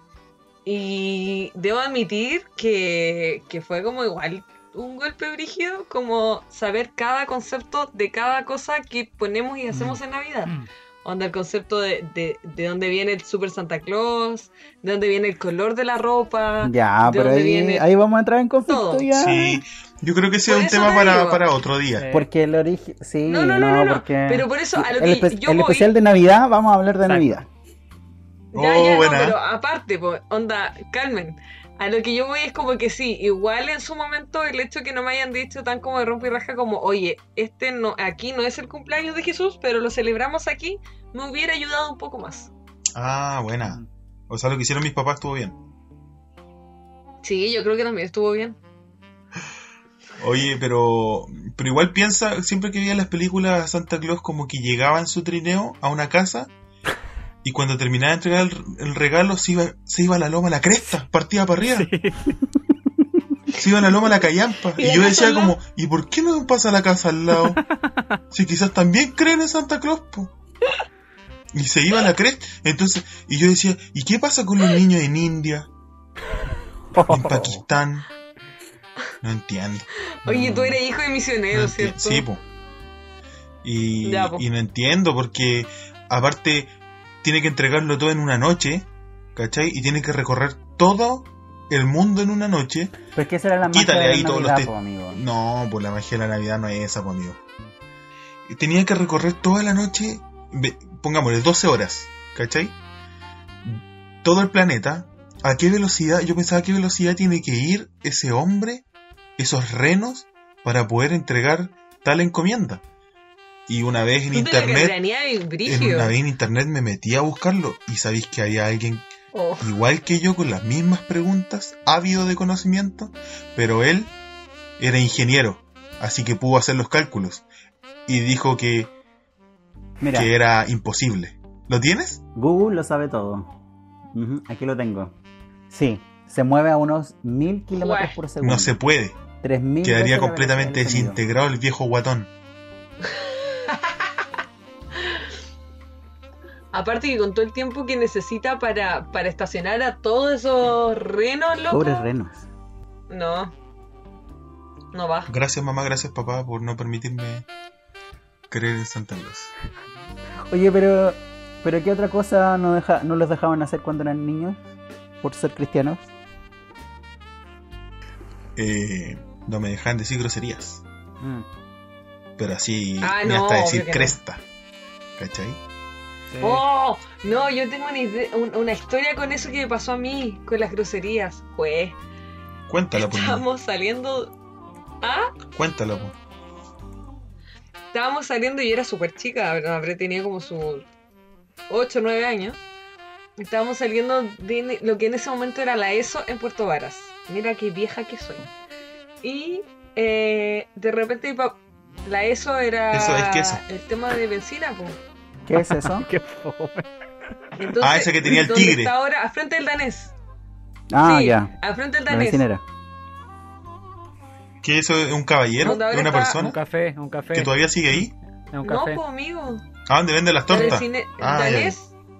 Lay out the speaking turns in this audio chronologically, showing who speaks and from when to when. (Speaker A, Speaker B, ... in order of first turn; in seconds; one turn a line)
Speaker A: 0.6-10.5
Speaker B: 9.7-10.7
Speaker A: 11.0-17.9
Speaker C: 16.6-19.6
Speaker A: 18.7-19.1
Speaker D: 19.1-22.1
Speaker A: 20.4-21.4
Speaker B: 21.9-22.3
Speaker C: 22.1-27.5
Speaker A: 23.2-25.9
Speaker B: 27.0-27.3
Speaker A: 28.5-42.5
Speaker D: 28.5-29.4
Speaker D: 42.9-45.6
Speaker A: 47.2-48.6
Speaker D: 50.2-56.5
Speaker D: 57.4-61.9
Speaker B: 61.7-62.4
Speaker D: 63.5-67.6
Speaker A: 64.8-65.5
Speaker B: 67.6-68.2
Speaker D: 68.3-70.3
Speaker D: 71.5-75.7
Speaker B: 76.9-77.6
Speaker D: 77.1-78.1
Speaker D: 79.2-80.8
Speaker A: 80.2-82.2
Speaker D: 81.5-82.4
Speaker D: 83.6-93.0
Speaker A: 84.0-84.4
Speaker C: 93.1-95.2
Speaker D: 93.7-97.4
Speaker D: 98.5-102.8
Speaker D: 103.6-108.8
Speaker D: 109.4-112.8
Speaker D: 113.7-115.0
Speaker A: 114.3-116.1
Speaker D: 115.7-119.1
Speaker A: 119.3-119.7
Speaker D: 119.6-124.1
Speaker D: 124.8-127.4
Speaker D: 128.1-128.9
Speaker C: 130.0-130.3
Speaker D: 130.1-132.2
Speaker C: 132.3-133.5
Speaker C: 134.1-135.2
Speaker C: 135.7-138.8
Speaker A: 137.8-138.2
Speaker D: 138.4-139.2
Speaker C: 139.4-141.2
Speaker D: 139.8-142.3
Speaker A: 143.0-144.1
Speaker A: 146.7-152.0
Speaker C: 151.7-152.5
Speaker A: 153.1-153.5
Speaker A: 154.9-155.3
Speaker D: 155.3-157.4
Speaker D: 158.5-159.5
Speaker C: 160.5-164.6
Speaker C: 165.2-166.1
Speaker D: 168.6-170.8
Speaker B: 171.2-171.4
Speaker D: 172.4-174.4
Speaker A: 173.0-174.2
Speaker D: 175.2-175.6
Speaker B: 176.3-176.6
Speaker A: 176.4-182.0
Speaker D: 182.7-183.4
Speaker A: 182.9-184.3
Speaker A: 185.0-185.3
Speaker D: 185.5-186.2
Speaker A: 187.9-190.8
Speaker A: 191.7-192.6
Speaker A: 193.4-198.5
Speaker A: 199.2-205.0
Speaker D: 202.9-203.6
Speaker C: 205.4-206.1
Speaker B: 205.8-206.9
Speaker A: 207.6-210.1
Speaker D: 207.8-208.9
Speaker C: 210.9-211.5
Speaker A: 211.0-212.4
Speaker C: 212.1-212.6
Speaker D: 214.6-216.6
Speaker A: 215.6-216.4
Speaker B: 216.3-217.6
Speaker D: 217.3-218.1
Speaker B: 218.5-219.0
Speaker A: 218.6-219.7
Speaker D: 219.9-221.7
Speaker A: 220.5-221.9